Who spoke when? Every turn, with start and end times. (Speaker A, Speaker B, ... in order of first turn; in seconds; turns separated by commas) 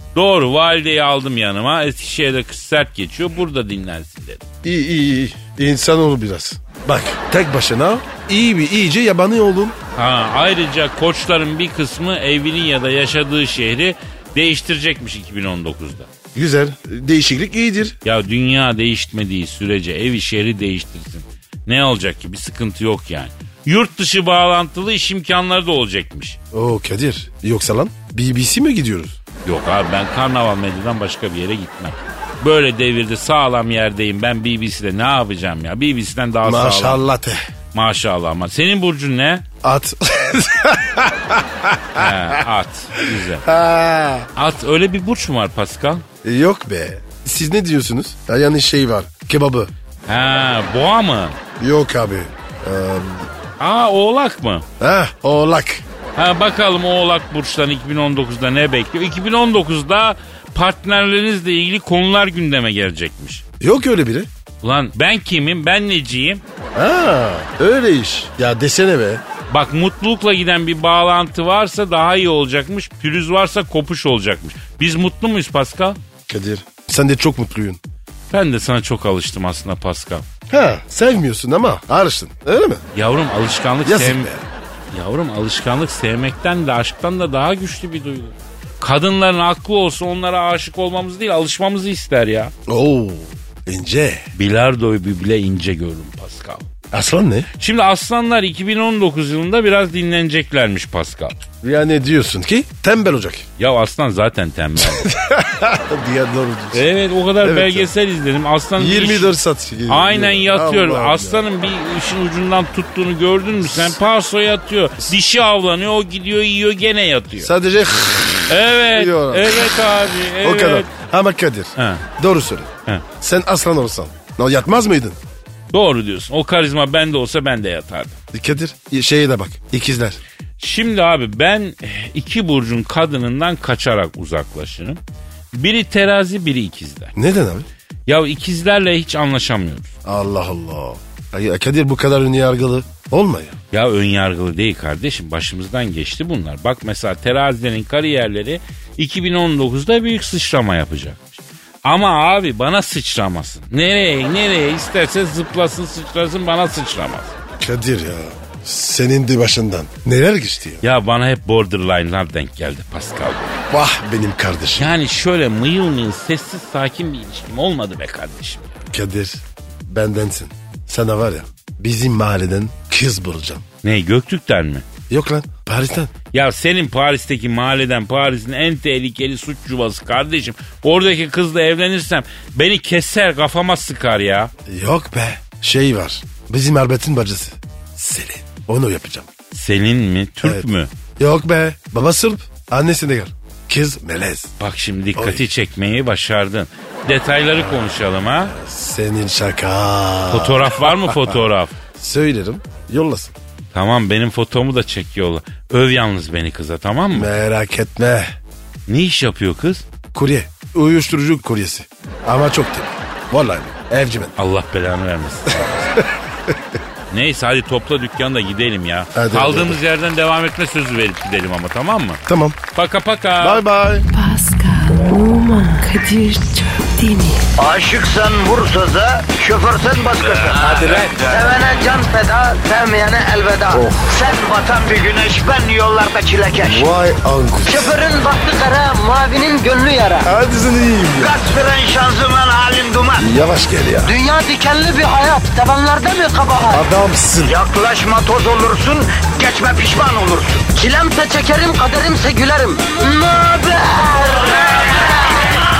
Speaker A: 0.1-4.4, Speaker B: 4.6-9.8, Speaker A: 9.9-16.1, Speaker B: 16.3-18.0, Speaker A: 18.0-26.4, Speaker B: 26.5-29.2, Speaker A: 29.4-37.0, Speaker B: 36.4-37.4, Speaker A: 37.7-39.5, Speaker B: 39.6-42.4, Speaker A: 41.9-43.5, Speaker B: 43.0-44.3, Speaker A: 44.3-46.0, Speaker B: 46.2-49.7, Speaker A: 50.1-51.4, Speaker B: 51.6-53.3, Speaker A: 53.6-54.6, Speaker B: 54.8-55.8, Speaker A: 56.1-63.4, Speaker B: 63.6-64.3, Speaker A: 64.6-66.4, Speaker B: 66.7-69.2, Speaker A: 69.5-76.0, Speaker B: 76.3-77.8, Speaker A: 78.3-80.2, Speaker B: 80.5-82.8, Speaker A: 82.9-84.3, Speaker B: 83.8-84.4, Speaker A: 84.9-92.5, Speaker B: 92.7-94.3, Speaker A: 94.3-96.7, Speaker B: 96.9-97.5, Speaker A: 97.6-101.4, Speaker B: 101.6-103.5, Speaker A: 103.6-105.1, Speaker B: 104.8-106.8, Speaker A: 106.7-109.3, Speaker B: 107.4-107.9, Speaker B: 108.8-111.4, Speaker A: 109.9-117.5, Speaker B: 117.4-119.7, Speaker A: 118.5-120.9, Speaker B: 120.4-125.2, Speaker A: 121.8-122.0, Speaker A: 125.7-128.2, Speaker B: 128.3-130.2, Speaker A: 130.6-135.0, Speaker A: 135.5-137.1, Speaker B: 137.1-137.7, Speaker A: 138.1-139.9, Speaker B: 140.0-143.6, Speaker A: 143.7-157.4, Speaker B: 157.6-160.8, Speaker A: 160.8-163.6, Speaker B: 163.7-164.9, Speaker A: 164.8-168.7, Speaker B: 168.9-173.6, Speaker A: 173.8-174.8, Speaker B: 175.1-176.1, Speaker A: 176.3-184.5, Speaker B: 184.7-189.3, Speaker A: 189.5-190.9, Speaker B: 190.4-194.5, Speaker A: 194.6-198.6, Speaker B: 195.2-195.4, Speaker B: 198.5-201.2, Speaker A: 200.3-201.7, Speaker B: 201.9-203.3, Speaker A: 203.7-207.3, Speaker B: 207.1-208.3, Speaker A: 208.9-209.8, Speaker B: 210.1-214.3, Speaker A: 214.4-216.0, Speaker B: 215.9-216.6, Speaker A: 217.1-222.2, Speaker B: 219.1-219.8, Speaker B: 222.3-222.6, Speaker A: 222.7-223.6, Speaker B: 223.4-224.1, Speaker C: 224.1-227.5, Speaker D: 227.6-236.9, Speaker B: 230.6-231.2, Speaker B: 233.7-234.0, Speaker B: 236.6-237.9, Speaker D: 237.7-240.3, Speaker B: 240.2-241.3, Speaker D: 241.2-243.3, Speaker B: 243.2-244.2, Speaker D: 244.0-246.8, Speaker B: 246.7-247.6, Speaker D: 247.4-255.4